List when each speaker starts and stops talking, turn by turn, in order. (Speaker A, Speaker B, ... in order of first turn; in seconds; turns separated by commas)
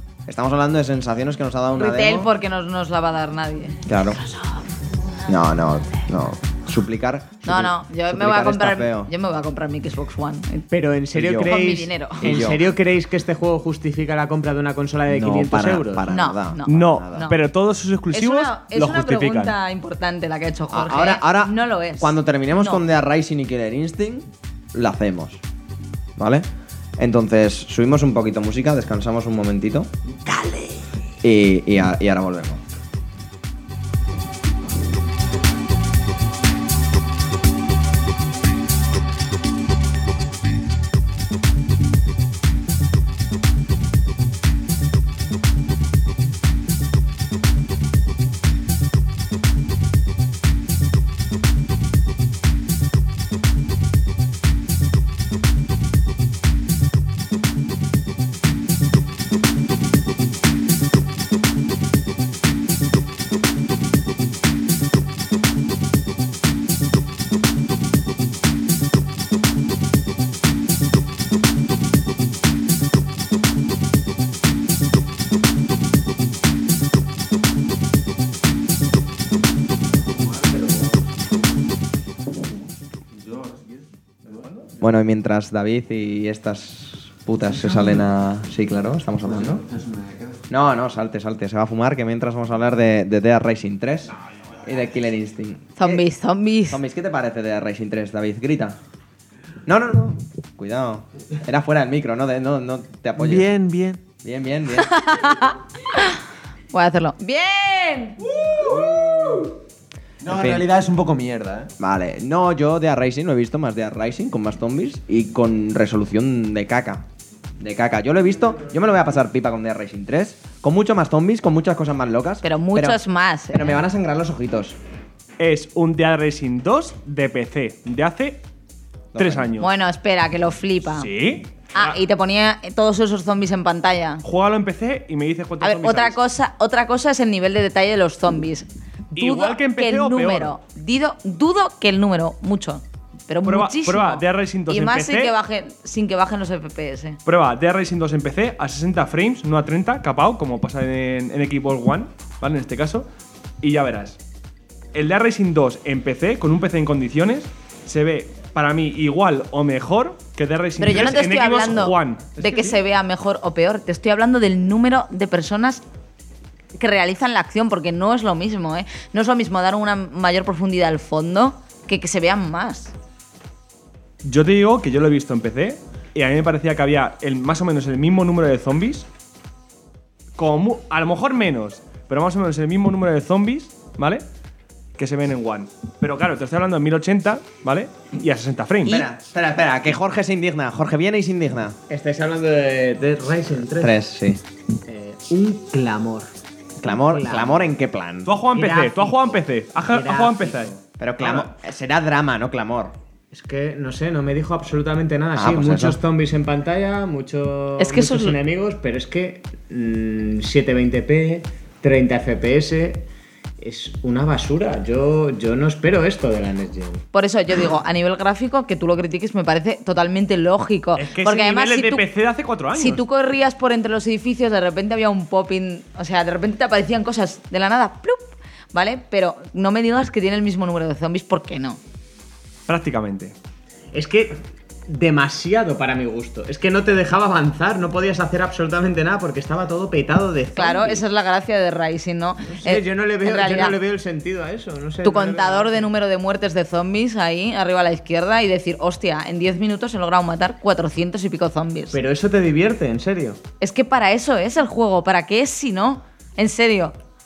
Speaker A: 0.3-2.3, Speaker B: 1.8-4.6, Speaker A: 3.9-4.2, Speaker A: 5.3-9.1, Speaker B: 7.5-10.7, Speaker C: 10.7-16.1, Speaker A: 11.1-11.5, Speaker B: 11.4-12.4, Speaker A: 12.2-12.7, Speaker A: 15.1-17.3, Speaker B: 16.1-17.4, Speaker D: 16.7-19.6, Speaker B: 18.1-22.8, Speaker A: 20.7-25.4, Speaker A: 26.2-26.5, Speaker A: 27.0-29.9, Speaker A: 31.2-32.6, Speaker E: 80.0-81.3, Speaker E: 83.1-84.6, Speaker A: 84.8-89.6, Speaker E: 87.7-88.0, Speaker E: 89.2-90.4, Speaker A: 90.5-96.0, Speaker B: 95.8-96.8, Speaker A: 96.7-98.8, Speaker A: 99.7-103.5, Speaker E: 103.2-104.0, Speaker A: 104.2-105.2, Speaker B: 104.8-106.2, Speaker B: 106.7-109.4, Speaker E: 108.3-109.5, Speaker E: 110.2-111.7, Speaker A: 110.2-110.7, Speaker A: 111.8-117.0, Speaker A: 117.6-123.0, Speaker B: 122.4-123.8, Speaker A: 123.5-124.8, Speaker D: 125.4-128.4, Speaker A: 129.2-129.5, Speaker D: 129.2-129.7, Speaker B: 129.6-131.1, Speaker D: 131.0-132.0, Speaker B: 131.7-134.2, Speaker D: 134.2-136.2, Speaker B: 135.6-147.2, Speaker D: 139.2-140.5, Speaker D: 143.4-145.3, Speaker D: 147.3-153.1, Speaker D: 153.6-154.2, Speaker D: 154.9-162.8, Speaker B: 160.8-165.8, Speaker B: 166.8-172.9, Speaker D: 174.2-179.1, Speaker D: 180.4-184.2, Speaker D: 185.0-189.1, Speaker A: 188.8-191.8, Speaker C: 191.9-194.0, Speaker A: 193.6-194.4, Speaker C: 194.9-196.3, Speaker A: 196.8-198.4, Speaker C: 196.8-197.7, Speaker D: 198.2-200.7, Speaker C: 198.5-201.5, Speaker A: 201.0-202.9, Speaker C: 203.3-213.1, Speaker A: 205.3-206.0, Speaker B: 207.8-208.4, Speaker C: 213.6-217.0, Speaker B: 217.1-222.1, Speaker D: 221.0-223.0, Speaker B: 222.7-231.8, Speaker D: 232.7-233.3, Speaker C: 233.9-241.0, Speaker B: 240.6-243.8, Speaker C: 242.4-245.9, Speaker B: 245.0-252.0, Speaker C: 251.9-253.4, Speaker B: 253.6-256.9